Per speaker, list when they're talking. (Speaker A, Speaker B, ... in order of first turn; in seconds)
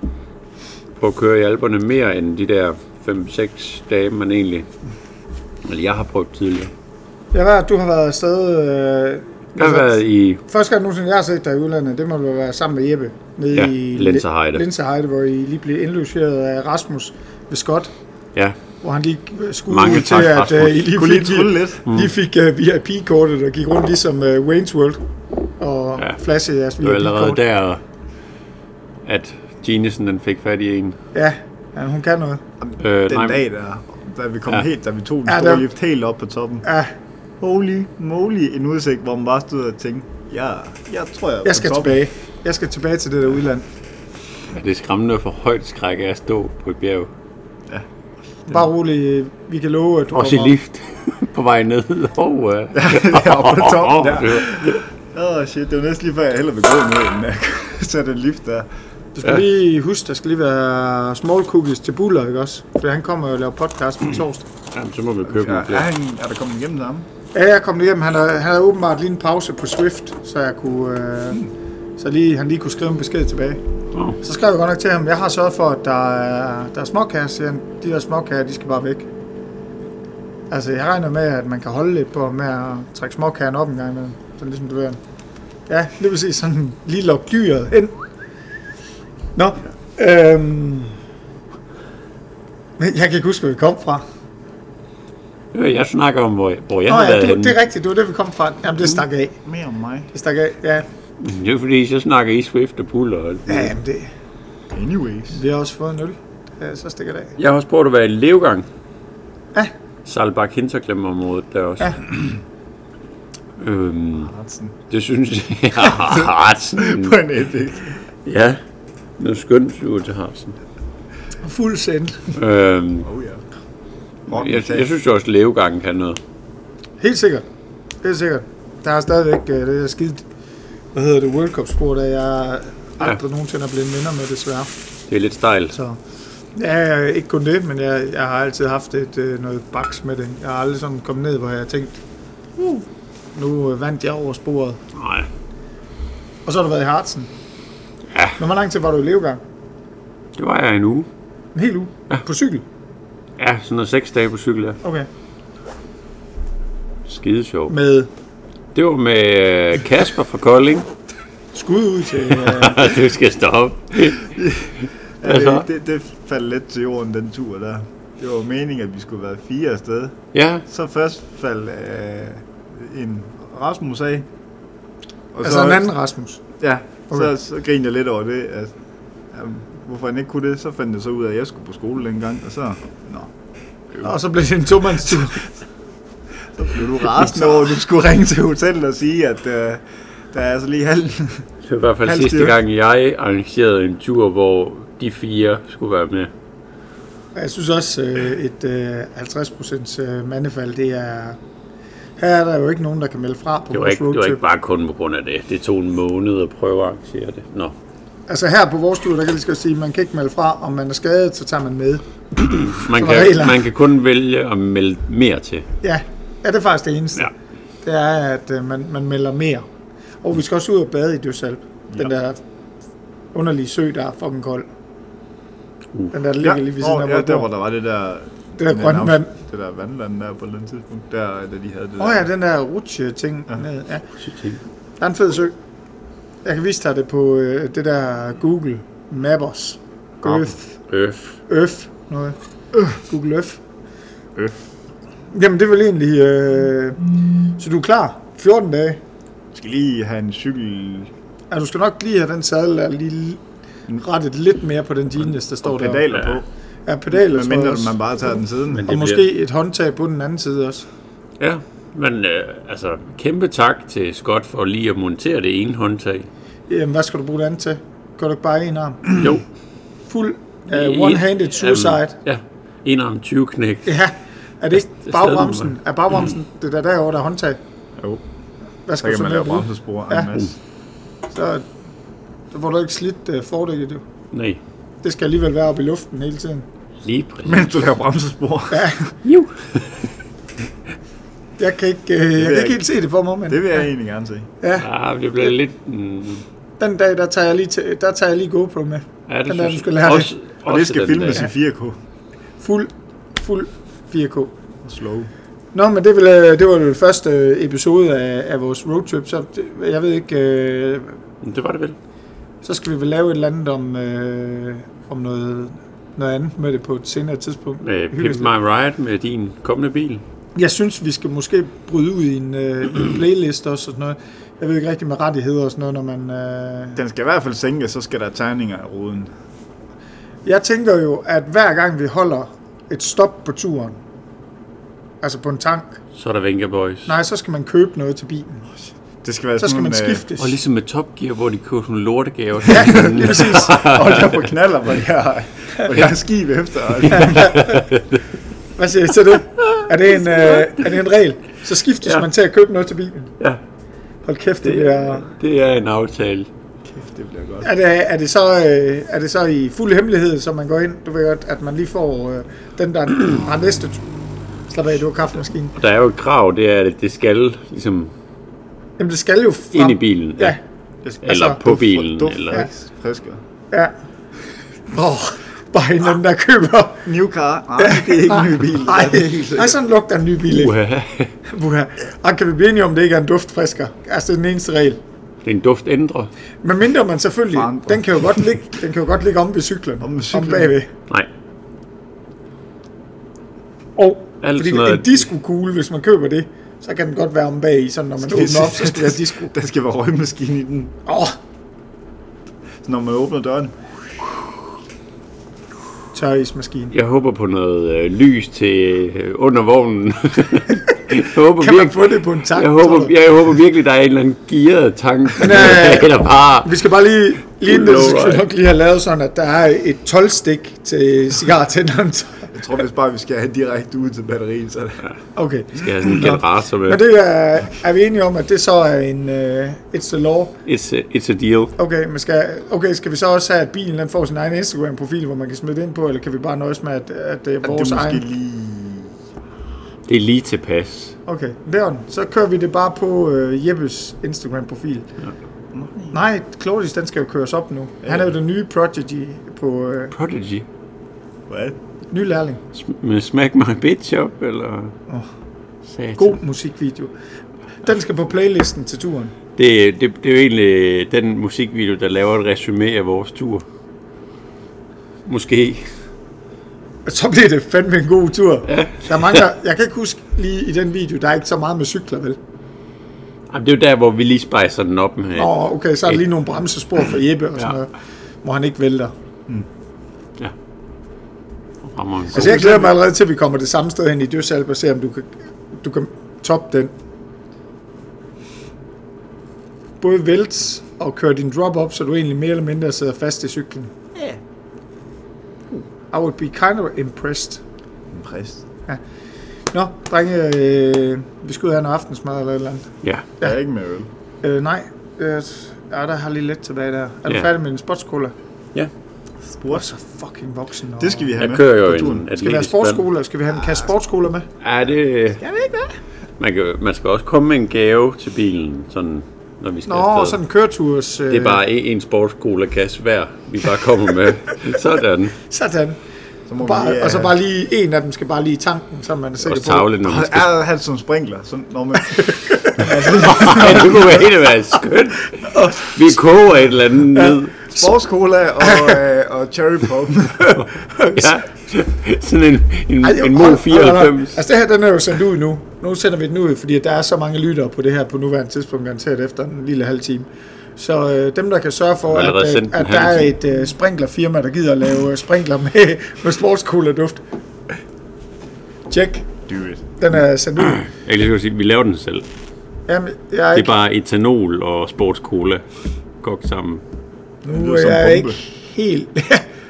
Speaker A: 1.0-4.7, 5.6-6.7, 9.6-10.4, 13.5-14.6, 19.7-20.9, 26.8-27.8, 29.0-31.0, 32.8-33.4, 44.5-47.1, 50.1-54.8, 64.7-65.9, 95.5-97.5, 101.2-103.7, 107.4-108.7, 110.0-112.1, 113.6-114.3, 114.9-117.1, 118.2-118.6, 119.2-120.5, 122.3-123.1, 124.3-126.2, 135.1-135.7, 144.9-145.3, 150.3-151.1, 153.4-154.8, 157.1-157.7, 158.7-160.9, 162.3-164.5, 165.2-165.7, 170.3-170.6, 191.6-196.3, 203.7-207.7, 212.4-215.7, 234.2-234.6, 240.3-241.3, 256.1-256.4, 258.8-259.2, 261.4-266.3, 269.2-269.4, 270.7-273.9, 275.1-275.7, 284.3-284.6, 287.0-287.7, 289.2-290.1, 294.8-296.4, 299.3-301.5, 311.4-311.9, 317.8-320.2, 336.1-337.1, 340.4-344.4, 347.0-348.2, 349.6-350.7, 354.6-356.5, 365.8-368.1, 369.7-370.6, 371.2-372.7, 380.5-381.3, 385.4-386.3, 394.4-395.2, 406.9-416.7, 417.6-418.4, 425.7-427.0, 430.6-431.7, 440.1-441.1, 450.1-450.6, 452.7-454.9, 455.9-456.4, 459.6-463.6, 465.2-465.9, 468.7-469.4, 473.5-475.5, 481.8-482.6, 511.4-513.0, 514.6-515.4, 516.4-520.4, 521.3-525.4, 529.4-530.5, 533.1-537.5, 541.1-544.4, 552.1-553.3, 560.6-562.2, 563.5-565.6, 566.2-566.8
Speaker B: 7.3-17.9, 18.8-25.0, 25.6-27.4, 31.1-32.4, 35.2-35.7, 36.6-36.9, 41.4-43.6, 48.5-50.5, 59.1-64.5, 67.3-71.4, 72.0-73.6, 74.2-79.1, 80.5-85.0, 85.7-87.9, 89.3-91.0, 92.8-94.0, 96.9-99.3, 100.1-100.8, 103.5-104.1, 105.3-107.3, 121.4-122.3, 127.0-127.4, 128.0-130.2, 130.9-134.7, 135.7-136.0, 136.5-142.0, 142.6-144.8, 146.4-147.3, 148.4-149.4, 151.5-152.6, 154.8-155.1, 157.7-158.1, 161.5-162.9, 175.4-176.4, 184.0-185.4, 197.3-201.4, 202.2-204.4, 208.3-213.6, 215.8-217.3, 217.8-219.7, 220.2-222.4, 223.3-224.7, 226.1-227.5, 228.6-229.3, 232.0-234.0, 235.0-235.5, 236.4-240.7, 241.5-242.3, 242.9-243.6, 245.3-249.0, 251.5-253.4, 253.9-256.1, 256.9-258.0, 258.9-260.9, 266.7-269.3, 270.1-272.1, 273.9-277.6, 278.9-280.3, 281.3-281.6, 282.5-284.0, 285.0-286.6, 288.7-289.0, 291.6-293.8, 294.6-294.9, 296.8-300.3, 302.6-304.5, 305.7-311.2, 312.6-318.5, 320.6-327.0, 330.4-334.0, 335.2-336.0, 337.1-338.7, 339.6-340.6, 342.7-343.7, 347.1-347.9, 348.8-353.3, 354.2-355.3, 357.6-364.0, 364.7-365.8, 369.0-370.6, 371.3-371.6, 374.9-377.1, 377.8-380.7, 381.4-385.0, 386.6-390.9, 394.0-399.5, 401.1-401.4, 406.1-406.9, 411.1-413.1, 415.4-422.5, 425.3-430.5, 431.8-438.2, 441.3-445.1, 446.1-450.1, 452.1-452.6, 456.1-457.1, 457.8-459.3, 467.1-472.4, 475.4-477.9, 478.4-479.1, 482.3-486.9, 490.0-493.9, 495.7-497.6, 499.7-502.9, 504.4-508.3, 509.7-511.3, 512.3-514.5, 519.9-521.6, 525.4-526.0, 526.6-529.9, 532.0-533.8, 535.4-536.0, 537.1-537.9, 538.6-539.0, 540.4-541.4, 543.0-557.2, 558.9-559.3, 560.0-560.8, 562.9-563.7, 567.4-569.4
Speaker C: 20.9-21.8, 32.6-36.6, 37.4-42.0, 52.7-58.7, 65.2-67.1, 99.4-100.1, 104.7-105.4, 114.1-114.7, 115.8-118.0, 123.0-123.4, 124.3-124.9, 164.3-174.3, 175.3-175.8, 176.6-178.7, 179.3-183.3, 186.4-191.5, 192.0-192.6, 226.4-232.3, 244.3-244.6, 249.5-251.1, 255.6-256.4, 257.1-258.9, 279.0-280.5, 287.4-289.1, 292.4-292.9, 293.5-294.5, 300.6-302.0, 304.8-305.3, 326.9-329.3, 339.2-340.2, 342.8-347.7, 356.9-357.7, 371.0-373.4, 377.0-379.8, 387.5-388.0, 390.0-390.7, 398.2-400.9, 402.8-403.7, 422.5-425.0, 437.6-439.1, 445.7-446.2, 451.5-451.8, 482.3-482.9, 498.1-498.6, 503.4-504.1, 509.5-509.9, 511.0-512.3, 515.4-516.0, 526.5-527.3, 530.0-534.1, 537.7-540.5, 559.5-559.8, 567.5-568.4